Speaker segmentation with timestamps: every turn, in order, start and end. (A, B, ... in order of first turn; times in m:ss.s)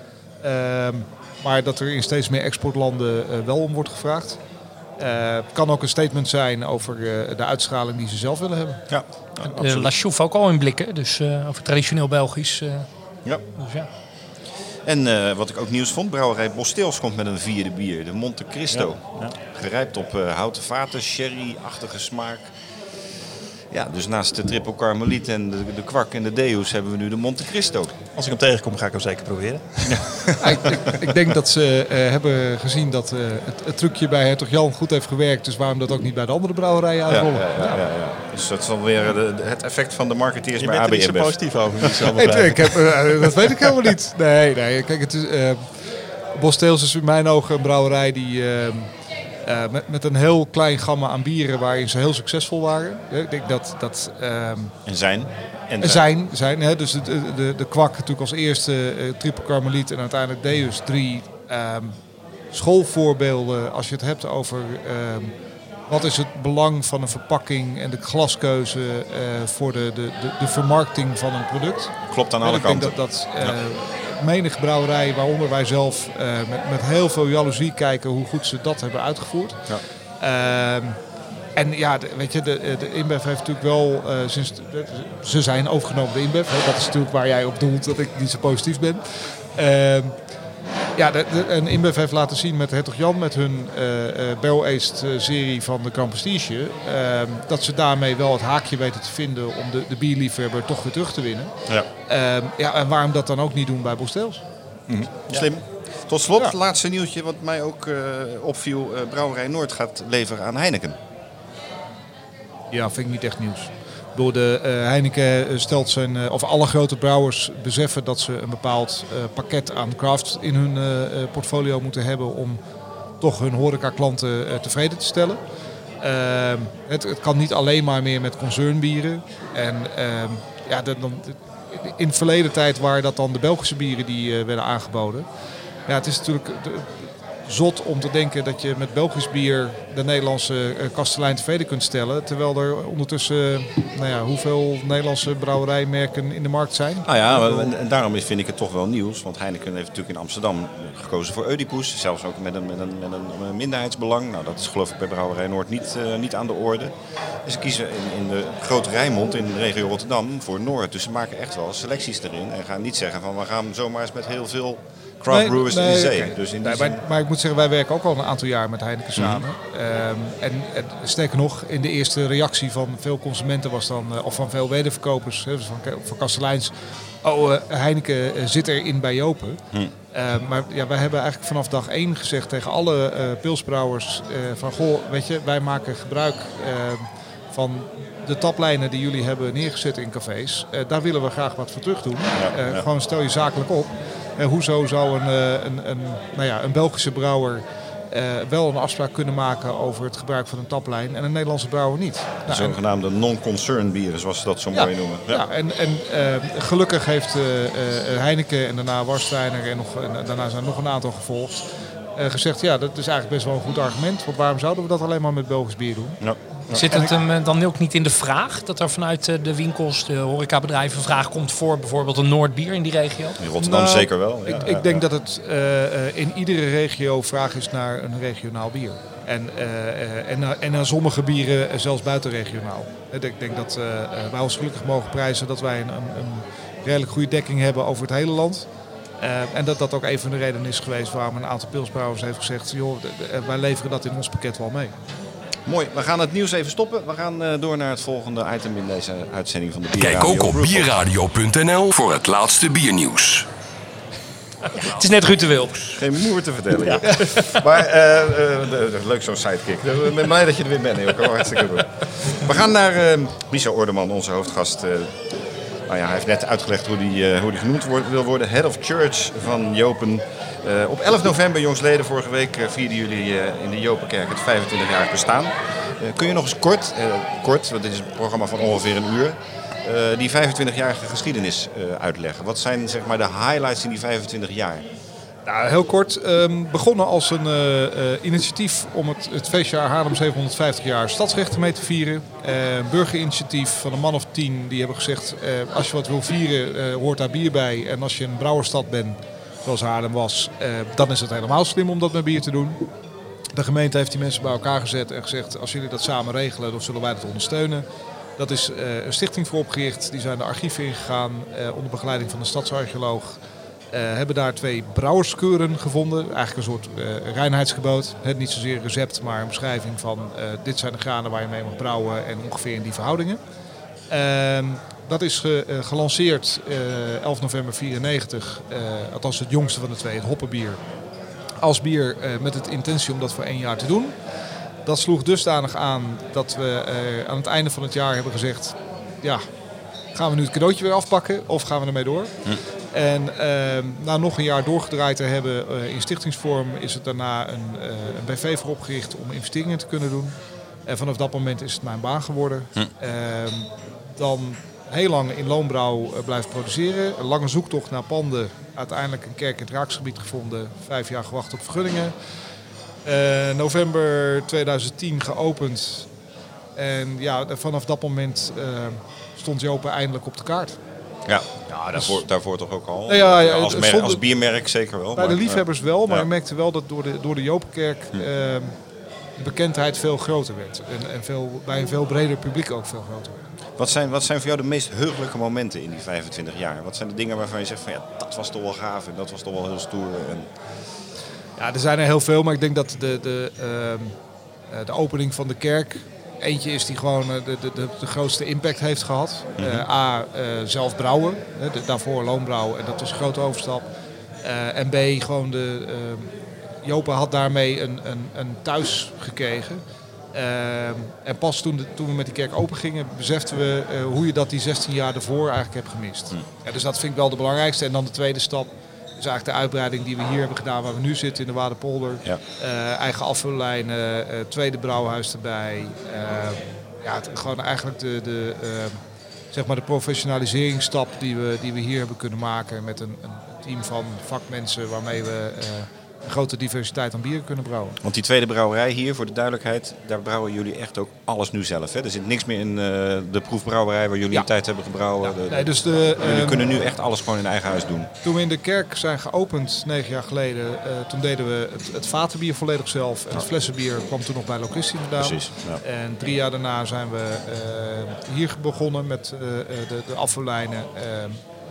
0:00.4-0:04.4 A
0:05.0-0:08.8 A
0:08.9-0:09.9 B
0:09.4-0:12.8 C
0:13.6-0:13.9 C
0:14.8-0:22.4 B
0:18.7-0:19.3 D
0:23.7-0:27.9 B
0:28.1-0:30.7 D
0:30.4-0:37.8 A
0:37.1-0:42.4 B
0:40.6-0:43.2 D
0:42.1-0:45.7 A
0:46.3-0:48.9 A
0:49.4-0:54.7 A
0:54.8-0:56.0 B
0:55.8-1:02.0 A
1:02.5-1:05.3 A
1:05.9-1:19.6 A
1:12.1-1:13.6 B
1:20.2-1:21.0 A
1:21.6-1:30.2 A
1:31.0-1:41.5 A
1:42.1-1:44.4 A
1:44.9-1:45.5 D
1:45.2-1:51.0 B
1:52.7-2:02.6 A
2:03.2-2:05.4 A
2:06.0-2:15.2 A
2:15.9-2:27.7 A
2:27.0-2:47.0 B
2:45.3-2:59.6 A
2:49.2-2:49.4 B
3:00.1-3:22.8 A
3:12.3-3:12.8 B
3:22.4-3:25.4 B
3:24.7-3:31.6 A
3:32.2-3:36.2 A
3:36.2-3:36.8 B
3:36.7-3:43.4 C
3:36.8-3:37.1 A
3:43.4-3:45.0 B
3:43.6-3:58.6 A
3:59.2-4:05.0 A
4:05.6-4:10.9 B
4:10.0-4:13.4 E
4:14.7-4:16.0 C
4:15.9-4:25.2 B
4:17.0-4:17.6 C
4:25.9-4:44.9 B
4:45.4-5:02.8 A
5:03.5-5:07.8 A
5:08.4-5:13.4 A
5:13.9-5:23.4 A
5:24.1-5:30.8 A
5:31.6-5:34.1 A
5:34.8-5:39.4 A
5:40.1-5:42.3 A
5:42.9-5:50.3 A
5:50.9-6:02.1 A
6:03.0-6:06.1 A
6:06.8-6:10.8 A
6:11.3-6:16.3 B
6:11.9-6:12.2 A
6:13.1-6:14.2 A
6:15.1-6:18.7 A
6:19.4-6:23.5 A
6:23.8-6:30.5 B
6:31.6-6:34.1 A
6:34.7-6:43.9 A
6:39.6-6:39.8 B
6:44.4-6:49.8 A
6:50.3-7:09.0 A
7:09.5-7:18.0 A
7:18.0-7:28.1 B
7:25.2-7:26.6 A
7:28.2-7:41.4 A
7:35.2-7:35.8 B